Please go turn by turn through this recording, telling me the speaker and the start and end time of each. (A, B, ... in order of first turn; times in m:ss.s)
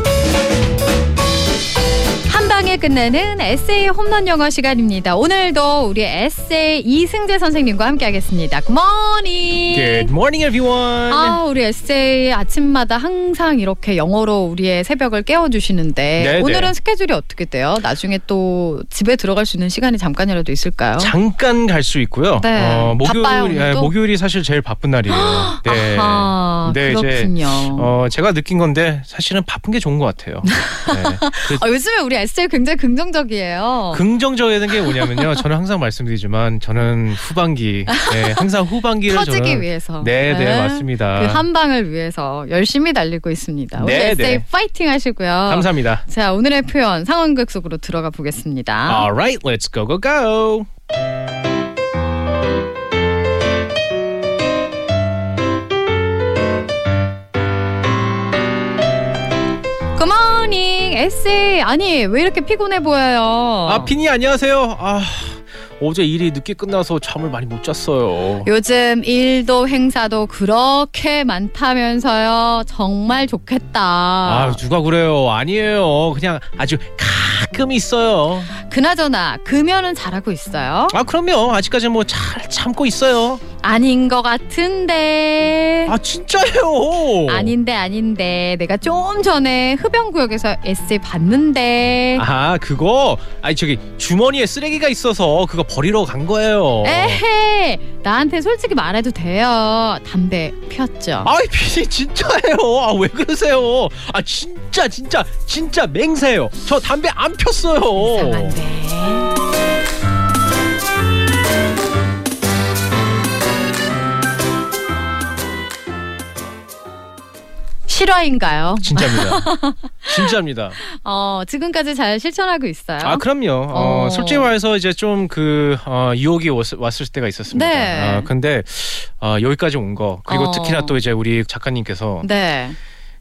0:02.3-0:10.1 A
0:09.7-0:11.4 B
0:11.1-0:21.1 A
0:16.2-0:16.7 B
0:21.0-0:31.6 B
0:22.4-0:23.9 A
0:25.1-0:27.9 A
0:30.4-0:34.0 A
0:33.9-0:41.4 B
0:34.8-0:35.4 A
0:37.9-0:38.5 A
0:39.0-0:49.1 A
0:43.8-0:44.4 B
0:45.4-0:46.0 B
0:48.9-0:50.7 B
1:00.0-1:03.9 A
1:03.6-1:08.5 B
1:08.4-1:14.6 A
1:14.2-1:18.5 B
1:18.5-1:21.0 A
1:20.9-1:23.4 B
1:23.6-1:25.9 A
1:25.9-1:27.5 B
1:27.2-1:32.2 A
1:32.1-1:37.2 B
1:36.8-1:41.3 A
1:41.2-1:48.6 B
1:48.0-1:49.3 A
1:57.9-2:04.5 A
1:58.8-1:59.5 B
2:00.0-2:00.8 B
2:03.0-2:12.3 B
2:07.5-2:08.3 A
2:10.3-2:11.0 A
2:12.2-2:12.8 A